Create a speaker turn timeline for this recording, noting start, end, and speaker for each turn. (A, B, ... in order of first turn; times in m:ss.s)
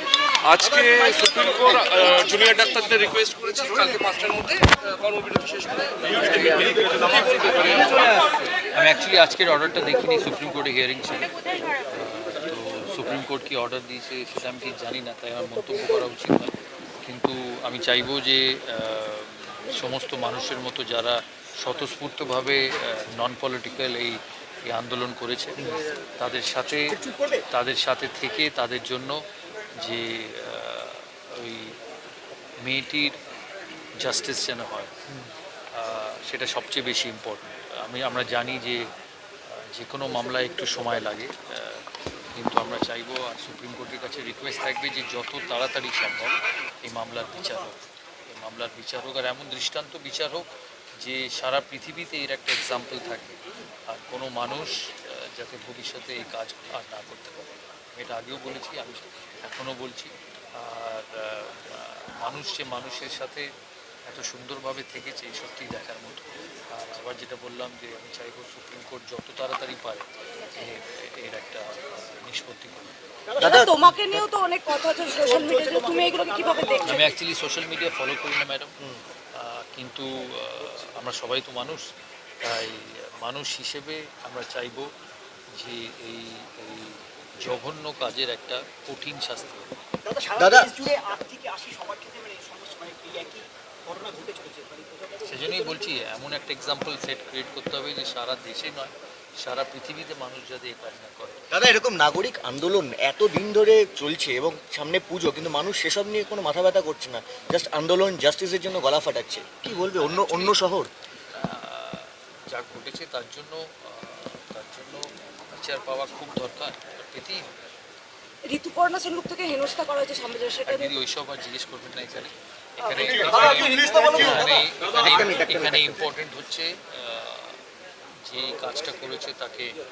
0:00.4-0:07.8 A
0:07.6-0:08.0 B
0:08.7-0:29.2 B
0:29.8-0:31.8 B
0:32.6-0:33.2 B
0:34.0-0:38.8 B
0:39.5-0:53.4 B
0:53.9-1:03.5 B
1:04.1-1:13.0 B
1:13.4-1:13.8 C
1:13.4-1:17.0 D
1:13.8-1:14.2 B
1:16.9-1:18.7 B
1:19.4-1:21.8 B
1:22.4-1:24.9 B
1:25.6-1:29.7 B
1:30.0-1:35.2 E
1:30.4-1:30.9 C
1:35.2-1:41.4 B
1:41.5-1:50.9 C
1:49.6-1:50.6 B
1:51.3-1:57.5 B
1:58.5-2:00.9 D
2:00.7-2:07.6 B
2:08.2-2:09.7 B